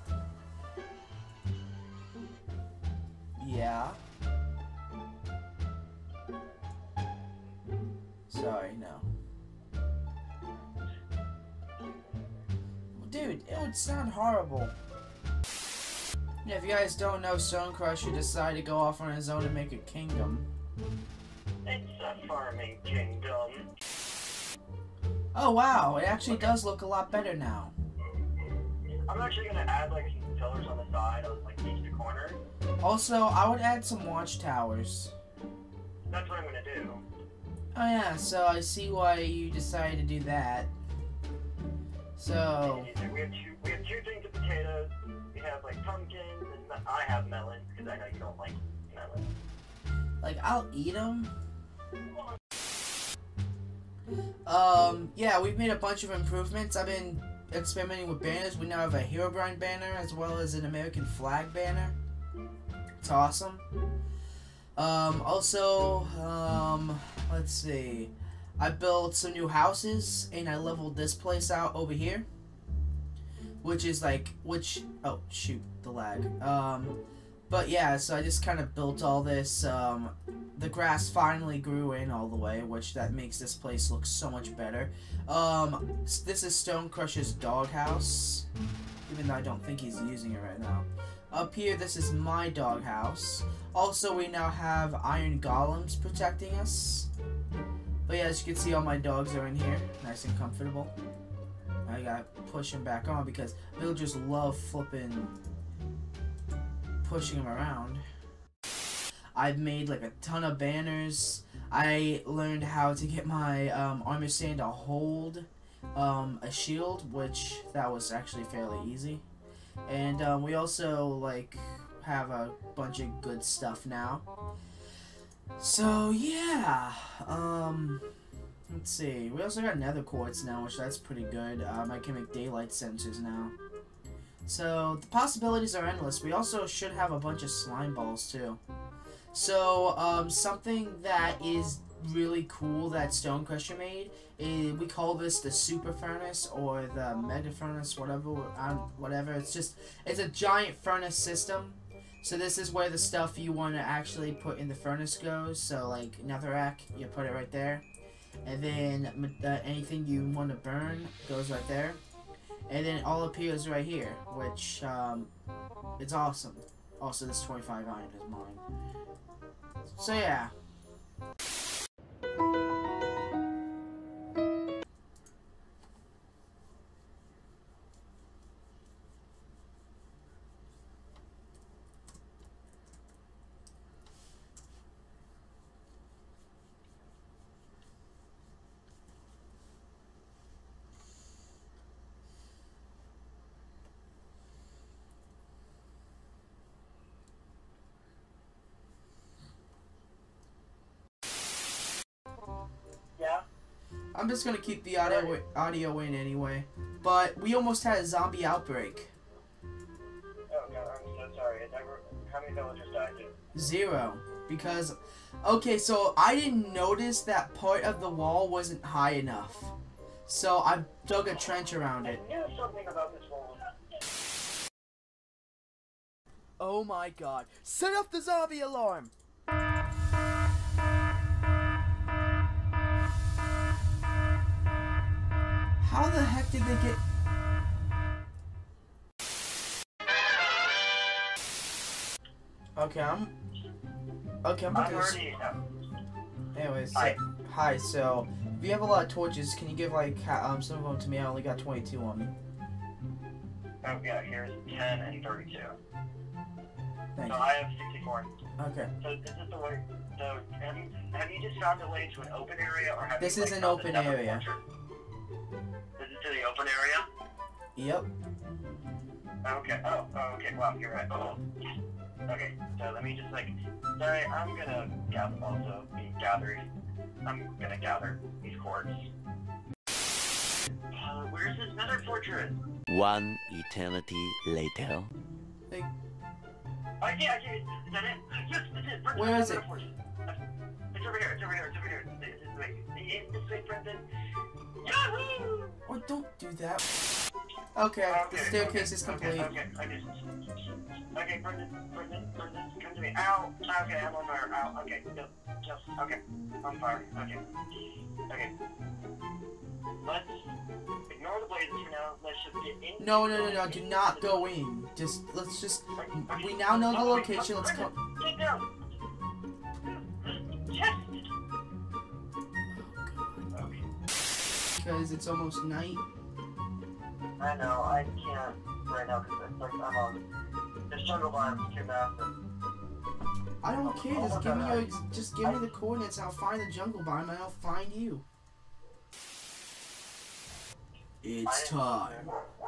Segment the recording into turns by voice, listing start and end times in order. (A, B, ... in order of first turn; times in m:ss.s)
0:03.4-0:04.0 A
0:08.3-0:09.1 A
0:12.9-0:14.7 A
0:16.4-0:20.5 A
0:21.6-0:23.7 B
0:25.3-0:27.7 A
0:29.1-0:32.4 B
0:32.8-0:35.1 A
0:36.1-0:37.0 B
0:37.7-0:40.7 A
0:42.2-0:42.9 A
0:42.6-0:49.3 B
0:50.2-0:51.3 A
0:54.4-1:02.0 A
1:03.0-1:03.6 A
1:04.8-1:12.3 A
1:13.6-1:28.5 A
1:29.1-1:37.1 A
1:38.0-1:40.9 A
1:41.8-1:45.4 A
1:47.0-1:48.0 A
1:49.3-1:59.2 A
1:59.9-2:04.3 A
2:05.6-2:08.0 A
2:08.7-2:13.5 A
2:14.4-2:18.6 A
2:19.3-2:37.8 A
2:38.4-2:42.0 A
2:42.7-2:45.3 A
2:46.0-2:48.6 A
2:49.8-2:50.5 A
3:23.2-3:23.4 B
3:24.1-3:29.1 A
3:25.0-3:25.3 B
3:30.5-3:33.3 B
3:33.5-3:39.7 A
3:40.3-3:42.2 A
3:42.0-3:43.7 B
3:46.6-3:49.1 A
3:55.8-3:57.0 A
4:02.8-4:03.3 A
4:04.4-4:05.2 A
4:04.7-4:05.6 B
4:06.5-4:12.3 A
4:13.8-4:15.8 B
4:17.1-4:17.5 A
4:17.2-4:18.3 B
4:18.6-4:18.9 A
4:19.0-4:24.6 B
4:23.2-4:24.4 A
4:26.0-4:27.0 B
4:27.8-4:28.1 A
4:29.4-4:31.4 B
4:32.3-4:36.6 B
4:37.2-4:39.0 B
4:40.9-4:42.6 B
4:42.9-4:45.1 C
4:47.0-4:50.4 B
4:49.1-4:49.6 A
4:50.9-4:54.0 B
4:54.8-4:55.8 B
4:55.8-4:56.8 A
4:57.7-4:59.5 A
4:58.1-5:00.1 B
5:01.1-5:07.4 B
5:10.0-5:10.3 B
5:11.1-5:14.5 B
5:13.0-5:17.9 A
5:16.0-5:18.7 B
5:19.8-5:21.3 B
5:22.7-5:23.5 A
5:23.5-5:23.8 B
5:24.7-5:26.0 A
5:27.4-5:30.2 B
5:30.9-5:32.3 B
5:33.6-5:38.2 A
5:33.7-5:34.9 B
5:41.2-5:42.3 A
5:41.4-5:42.3 B